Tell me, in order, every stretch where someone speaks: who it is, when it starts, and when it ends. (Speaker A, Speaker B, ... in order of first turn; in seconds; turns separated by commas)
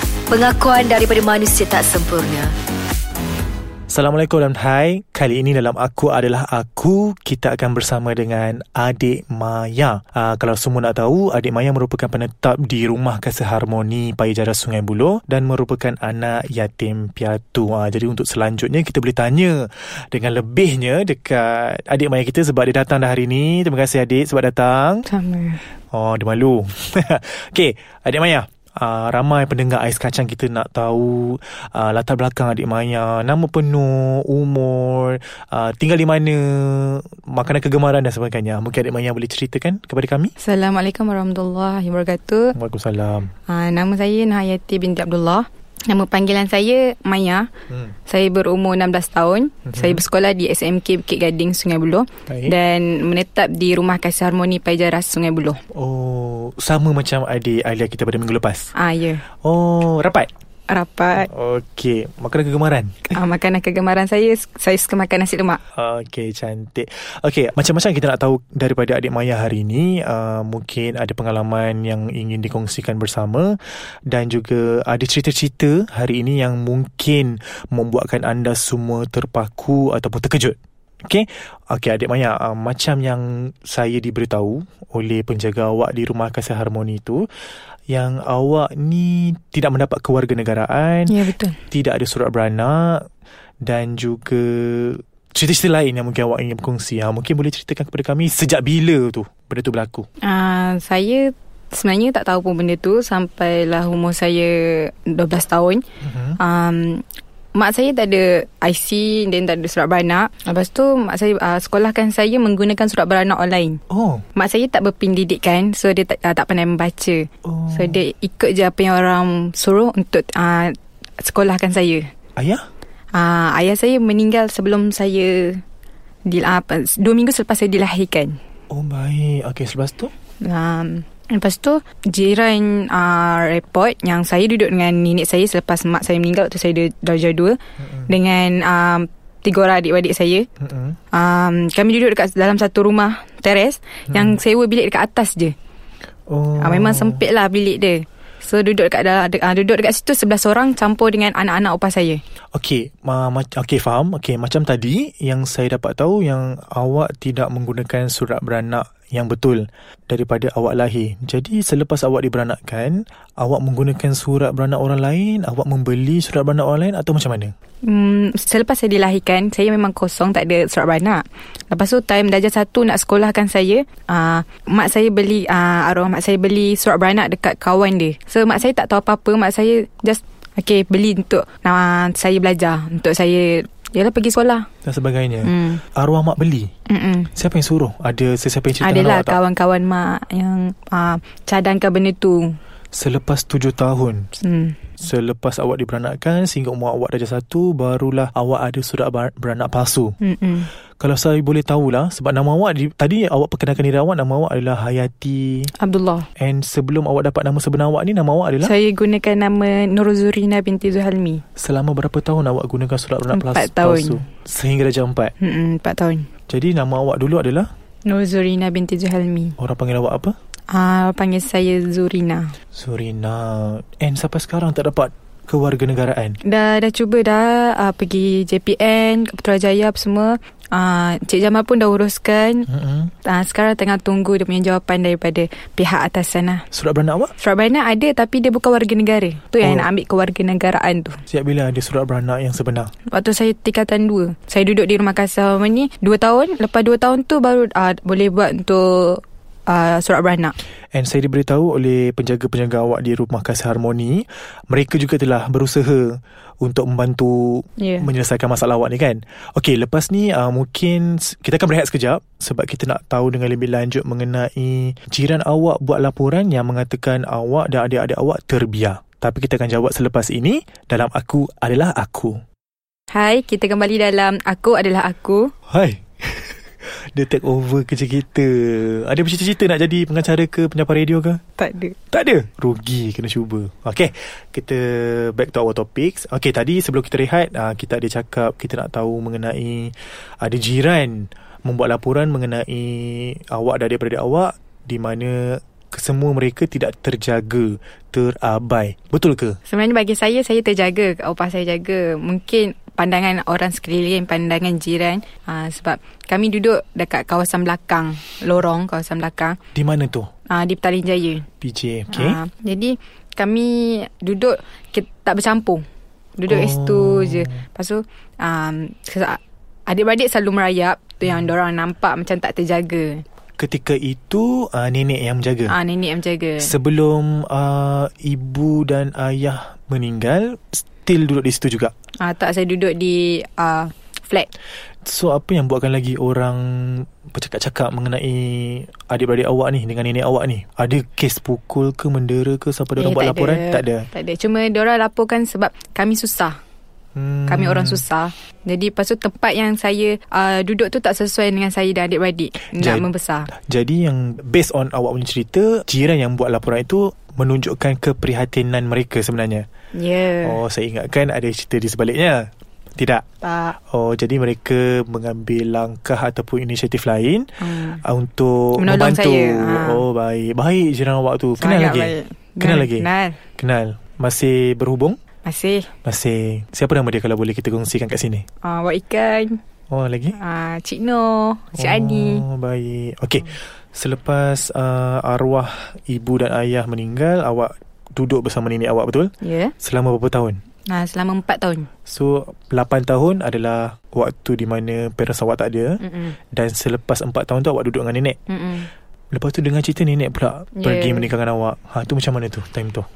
Speaker A: 0.3-2.5, Speaker B: 3.9-25.1, Speaker C: 25.1-25.6, Speaker B: 25.9-40.3, Speaker C: 40.4-42.5, Speaker B: 42.5-43.3, Speaker C: 43.5-47.5, Speaker B: 47.7-47.9, Speaker C: 48.0-55.6, Speaker B: 49.6-50.0, Speaker B: 52.3-52.5, Speaker B: 55.7-58.7, Speaker C: 58.7-59.2, Speaker B: 59.4-60.3, Speaker C: 60.7-61.3, Speaker B: 61.2-63.2, Speaker C: 63.1-65.6, Speaker B: 65.7-73.5, Speaker B: 74.1-87.2, Speaker B: 87.9-91.2, Speaker C: 91.1-91.6, Speaker B: 91.7-93.0, Speaker B: 93.6-100.1, Speaker C: 100.2-105.8, Speaker B: 106.0-106.4, Speaker C: 106.4-113.8, Speaker B: 113.9-114.2, Speaker C: 114.3-122.1, Speaker B: 117.4-118.0, Speaker B: 122.3-122.6, Speaker C: 123.1-125.6, Speaker C: 126.2-128.4, Speaker B: 128.7-130.1, Speaker C: 130.4-137.6, Speaker B: 137.8-138.1, Speaker C: 138.1-140.5, Speaker B: 140.6-141.0, Speaker C: 141.1-145.5, Speaker B: 144.1-144.4, Speaker B: 146.3-147.2, Speaker C: 146.6-152.2, Speaker B: 152.5-167.5, Speaker C: 167.8-184.7, Speaker B: 184.8-186.7, Speaker C: 185.4-185.8, Speaker C: 186.9-187.3, Speaker B: 187.3-189.4, Speaker C: 188.8-192.5, Speaker B: 192.9-194.3, Speaker C: 194.4-194.8, Speaker B: 195.0-200.2, Speaker C: 200.2-200.7, Speaker B: 201.0-205.7, Speaker C: 205.7-206.3, Speaker B: 206.4-208.7, Speaker C: 208.6-211.4, Speaker B: 211.6-215.3, Speaker C: 213.3-214.2, Speaker C: 215.4-216.3, Speaker B: 216.5-217.7, Speaker C: 218.1-219.5, Speaker B: 219.6-220.3, Speaker C: 220.7-222.5, Speaker B: 222.7-226.4, Speaker C: 226.4-232.7, Speaker B: 232.7-233.1, Speaker C: 233.2-236.6, Speaker B: 236.7-237.3, Speaker C: 237.4-241.2, Speaker B: 239.6-239.9, Speaker B: 241.3-242.9, Speaker C: 243.1-250.5, Speaker B: 250.9-272.4, Speaker C: 257.8-258.1, Speaker C: 273.1-275.5, Speaker B: 275.7-276.5, Speaker B: 277.1-281.4, Speaker C: 281.6-281.9, Speaker B: 282.1-299.6, Speaker C: 299.7-309.6, Speaker B: 309.7-310.3, Speaker C: 310.5-311.5, Speaker B: 311.6-312.4, Speaker C: 312.1-315.8, Speaker C: 316.4-323.2, Speaker B: 316.4-317.6, Speaker B: 323.6-325.7, Speaker C: 325.7-326.7, Speaker B: 326.6-331.9, Speaker C: 332.2-334.5, Speaker B: 335.0-344.1, Speaker C: 343.0-346.6, Speaker B: 347.1-348.0, Speaker C: 347.5-353.5, Speaker B: 352.8-353.1, Speaker B: 353.6-359.6, Speaker C: 359.9-360.6, Speaker B: 360.4-362.4, Speaker B: 363.0-363.2, Speaker C: 363.4-363.8, Speaker B: 363.9-367.5, Speaker C: 367.6-368.0, Speaker B: 368.0-373.1, Speaker C: 368.8-370.0, Speaker C: 371.6-373.4, Speaker B: 373.6-375.2, Speaker C: 375.4-375.9, Speaker B: 376.0-378.4, Speaker C: 378.6-379.6, Speaker B: 379.9-380.4, Speaker C: 380.3-382.4, Speaker B: 381.7-390.6, Speaker C: 389.4-389.7, Speaker C: 390.9-391.9, Speaker B: 392.1-396.0, Speaker C: 396.0-396.4, Speaker B: 396.5-398.4, Speaker C: 398.5-398.9, Speaker B: 399.3-403.1, Speaker C: 400.7-401.3